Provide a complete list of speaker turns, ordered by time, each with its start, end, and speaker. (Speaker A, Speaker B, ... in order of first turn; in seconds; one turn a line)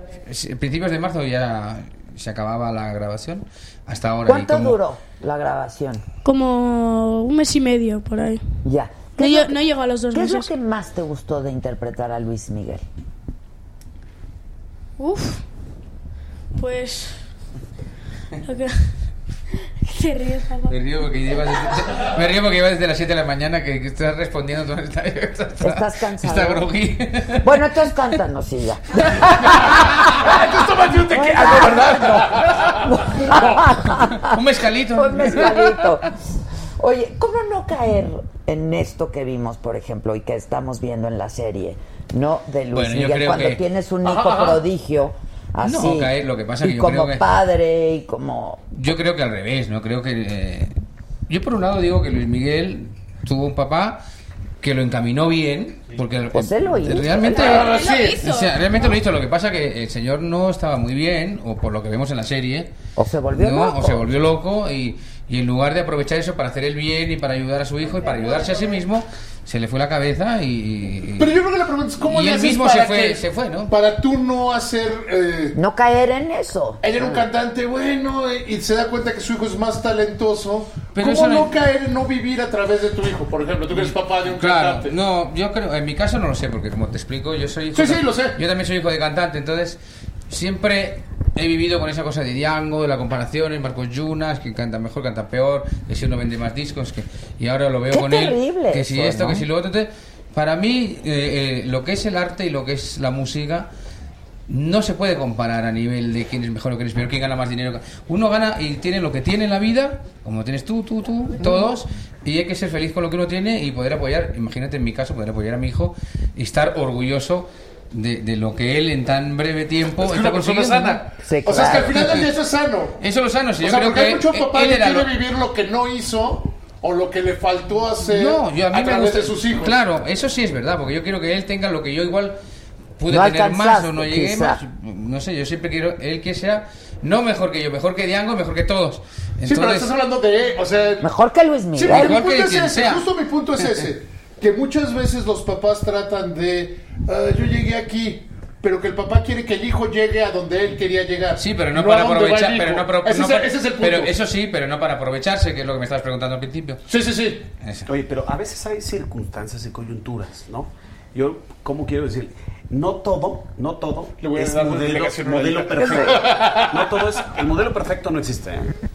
Speaker A: 0.2-4.8
Speaker B: 4.3-6.0
Speaker C: 6.2-8.4
Speaker B: 8.7-9.6
Speaker C: 9.2-10.5
Speaker B: 10.1-12.8
Speaker C: 15.0-15.4
Speaker C: 16.5-17.2
Speaker C: 18.5-18.9
Speaker C: 19.8-20.8
Speaker A: 20.7-27.5
Speaker B: 25.6-26.7
Speaker B: 27.4-30.3
Speaker D: 29.4-33.4
Speaker B: 31.1-32.3
Speaker B: 32.9-34.4
Speaker A: 33.9-35.9
Speaker B: 34.9-36.1
Speaker B: 36.8-48.6
Speaker A: 42.7-43.6
Speaker D: 44.0-44.6
Speaker A: 45.6-47.2
Speaker A: 48.8-50.7
Speaker A: 51.3-54.0
Speaker A: 54.6-62.7
Speaker B: 56.3-57.6
Speaker D: 57.2-58.2
Speaker C: 57.5-59.0
Speaker B: 63.0-64.2
Speaker A: 63.3-71.3
Speaker D: 71.2-75.6
Speaker A: 72.0-73.7
Speaker B: 75.5-77.2
Speaker D: 76.8-84.9
Speaker A: 80.9-81.5
Speaker A: 83.7-103.7
Speaker D: 87.7-88.4
Speaker B: 97.9-99.5
Speaker A: 104.5-121.0
Speaker D: 120.0-123.0
Speaker B: 121.2-122.0
Speaker A: 121.5-122.3
Speaker A: 123.0-125.1
Speaker D: 123.6-129.8
Speaker A: 128.0-132.4
Speaker A: 133.0-139.9
Speaker B: 133.1-134.6
Speaker D: 139.4-141.1
Speaker B: 141.0-142.2
Speaker D: 141.8-154.2
Speaker A: 141.9-143.1
Speaker A: 151.4-156.8
Speaker D: 156.9-157.5
Speaker A: 157.6-157.9
Speaker E: 157.9-168.8
Speaker D: 164.2-166.9
Speaker B: 165.8-166.2